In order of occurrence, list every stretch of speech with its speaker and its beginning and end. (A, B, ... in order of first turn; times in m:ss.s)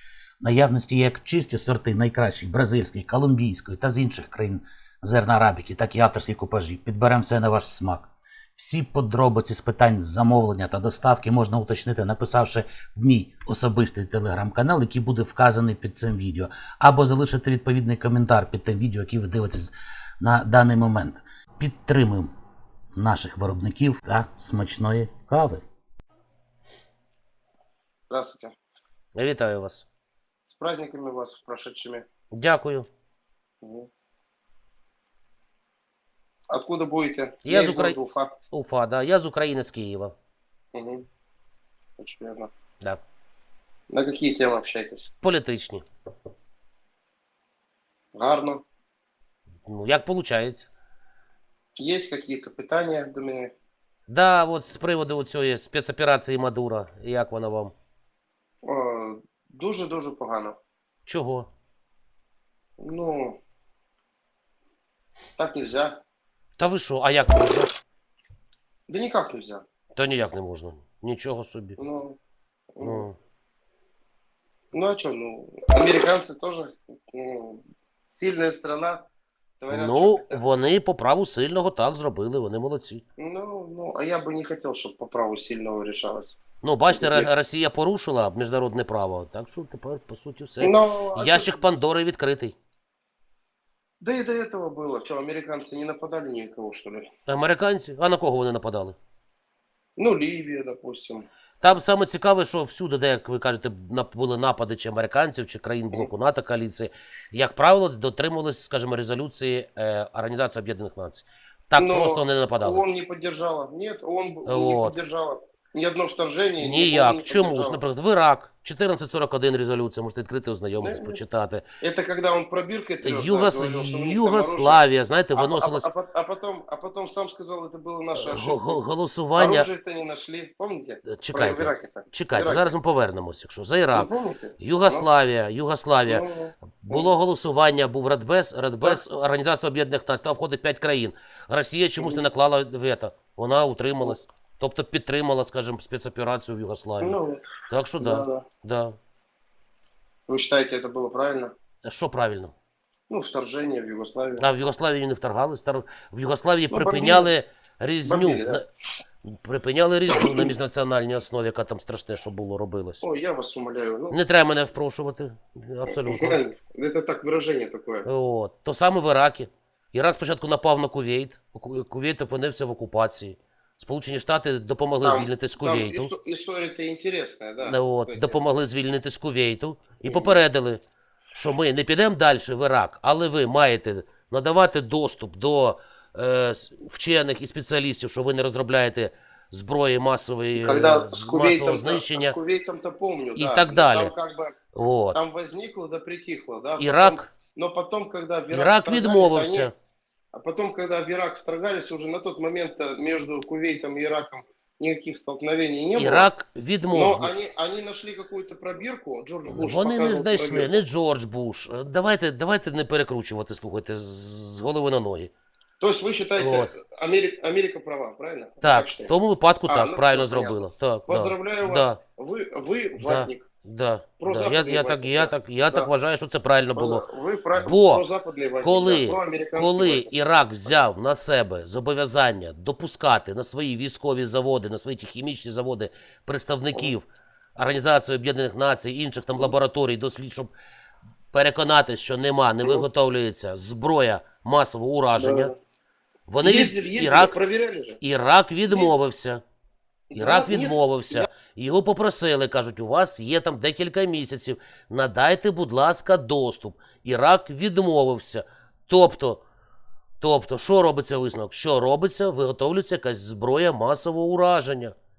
0:00.4-0:22.3 A
0:23.0-0:25.6 A
0:28.1-0:28.6 B
0:29.2-0:29.9 C
0:30.5-0:32.1 B
0:32.3-0:32.9 C
0:33.6-0:33.9 B
0:36.5-0:38.3 B
0:37.4-0:38.0 C
0:38.5-0:40.1 C
0:40.7-0:41.1 B
0:42.0-0:42.5 B
0:43.9-0:45.1 B
0:45.2-0:45.8 C
0:48.2-0:48.6 B
0:49.7-0:50.7 C
0:51.8-0:53.5 B
0:54.1-0:57.7 C
0:58.6-1:00.6 B
1:01.1-1:01.5 C
1:02.8-1:03.4 B
1:05.4-1:06.0 B
1:06.6-1:07.7 C
1:08.9-1:09.6 B
1:10.0-1:11.8 C
1:11.8-1:12.2 B
1:12.8-1:13.1 B
1:12.8-1:13.1 C
1:14.7-1:19.1 B
1:19.6-1:20.4 B
1:19.7-1:23.0 C
1:23.2-1:26.4 B
1:26.6-1:32.6 C
1:26.9-1:27.3 B
1:30.6-1:31.6 B
1:34.0-1:37.1 B
1:37.3-1:39.0 C
1:40.0-1:41.3 B
1:41.6-1:52.8 C
1:51.8-1:57.8 B
1:54.5-1:55.0 C
1:56.6-2:01.6 C
2:00.8-2:01.2 B
2:01.8-2:08.8 B
2:03.0-2:05.9 C
2:08.2-2:09.7 C
2:09.4-2:12.8 B
2:11.1-2:14.1 C
2:13.9-2:15.1 B
2:14.6-2:16.2 C
2:16.1-2:17.1 B
2:16.9-2:27.2 C
2:22.0-2:22.3 B
2:27.0-2:28.4 B
2:27.7-2:29.0 C
2:30.3-2:31.5 B
2:31.8-2:32.5 C
2:33.1-2:34.4 B
2:34.4-2:38.6 C
2:36.7-2:37.3 B
2:38.0-2:38.6 B
2:39.2-2:43.0 C
2:40.1-2:40.5 B
2:43.0-2:44.2 B
2:44.1-2:46.4 C
2:45.9-2:48.1 B
2:48.1-2:56.1 C
2:55.0-2:58.4 B
2:57.6-3:00.8 C
3:00.0-3:00.4 B
3:01.4-3:12.4 C
3:10.6-3:14.6 B
3:13.4-3:14.1 C
3:14.7-3:15.2 C
3:15.1-3:19.7 B
3:16.8-3:17.3 C
3:18.5-3:19.7 C
3:20.3-3:26.3 B
3:26.0-3:27.3 C
3:26.9-3:30.8 B
3:29.5-3:35.3 C
3:35.8-3:39.1 B
3:36.4-3:36.7 C
3:38.6-3:42.0 C
3:39.7-3:43.5 B
3:43.0-3:48.0 C
3:44.2-3:45.9 B
3:46.8-3:50.9 B
3:48.6-3:57.0 C
3:57.6-4:00.5 C
4:01.3-4:05.5 C
4:05.2-4:05.6 B
4:06.3-4:07.4 C
4:06.4-4:08.0 B
4:08.0-4:09.4 C
4:08.7-4:09.0 B
4:10.1-4:11.3 B
4:10.2-4:19.4 C
4:20.2-4:25.0 C